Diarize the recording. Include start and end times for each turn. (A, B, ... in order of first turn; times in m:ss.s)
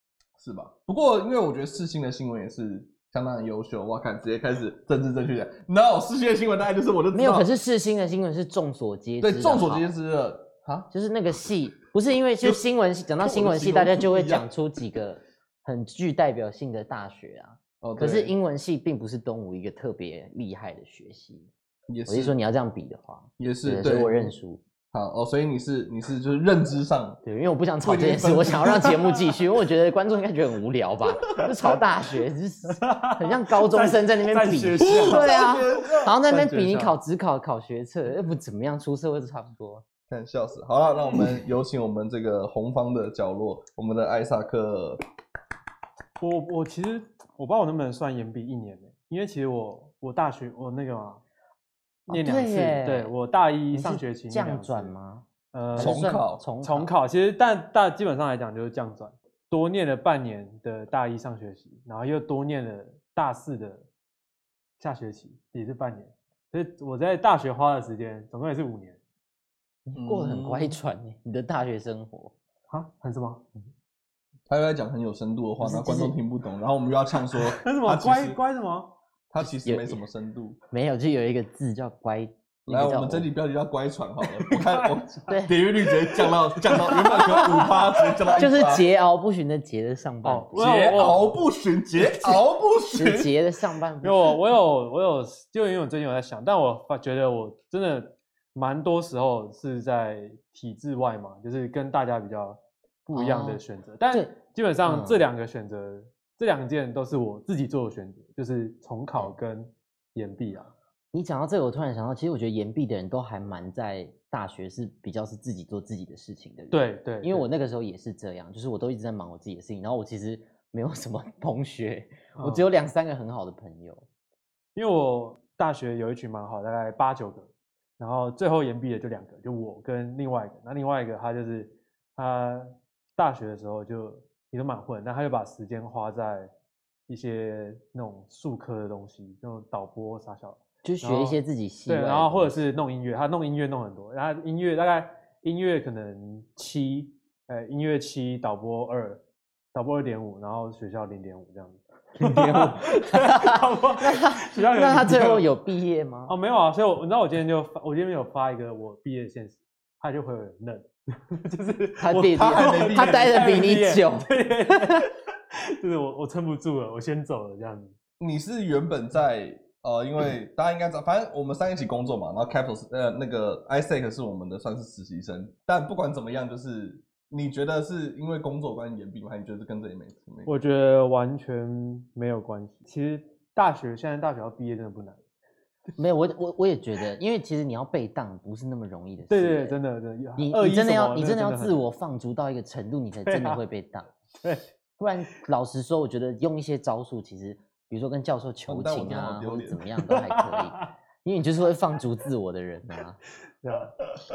0:00.4-0:07.5 A
0:07.1-0:09.9 B
0:09.2-0:10.9 A
0:10.9-0:21.5 B
0:13.2-0:14.5 A
0:17.8-0:18.3 A
0:21.9-0:22.3 A
0:22.1-0:24.6 B
0:23.4-0:24.3 A
0:24.9-0:27.2 A
0:27.2-0:39.8 B
0:27.8-0:29.2 A
0:32.7-0:35.4 C
0:34.8-0:36.2 A
0:36.2-0:37.0 C
0:40.1-0:45.0 A
0:46.2-0:51.2 C
0:52.1-0:53.1 B
0:52.1-0:54.9 C
0:53.7-0:56.9 B
0:55.5-0:56.0 C
0:55.8-0:56.4 A
0:56.6-1:03.9 C
1:04.8-1:09.0 C
1:09.8-1:12.3 B
1:09.9-1:10.8 A
1:12.7-1:13.4 C
1:14.5-1:18.4 A
1:15.6-1:16.1 B
1:17.5-1:18.9 C
1:19.3-1:20.6 A
1:19.4-1:20.0 B
1:20.7-1:23.3 B
1:22.7-1:28.9 A
1:24.5-1:25.2 C
1:25.3-1:25.6 B
1:26.8-1:27.8 C
1:27.0-1:27.6 B
1:28.3-1:31.1 B
1:30.2-1:31.4 C
1:30.5-1:33.3 A
1:32.0-1:32.4 B
1:32.9-1:34.4 B
1:34.0-1:50.7 C
1:43.1-1:44.3 B
1:44.8-1:45.2 B
1:51.1-2:04.0 B
1:56.7-1:57.5 C
2:02.4-2:02.6 C
2:04.7-2:16.5 C
2:17.1-2:29.2 C
2:20.8-2:22.6 B
2:29.7-2:35.5 C
2:32.2-2:36.4 B
2:36.3-2:47.9 C
2:42.0-2:45.1 B
2:42.1-2:43.6 A
2:48.2-3:00.5 A
3:00.4-3:05.2 C
3:06.0-3:09.8 B
3:09.3-3:11.8 C
3:10.4-3:14.1 B
3:13.2-3:13.6 C
3:15.0-3:23.2 B
3:18.7-3:19.8 A
3:20.0-3:20.9 C
3:23.6-3:24.0 C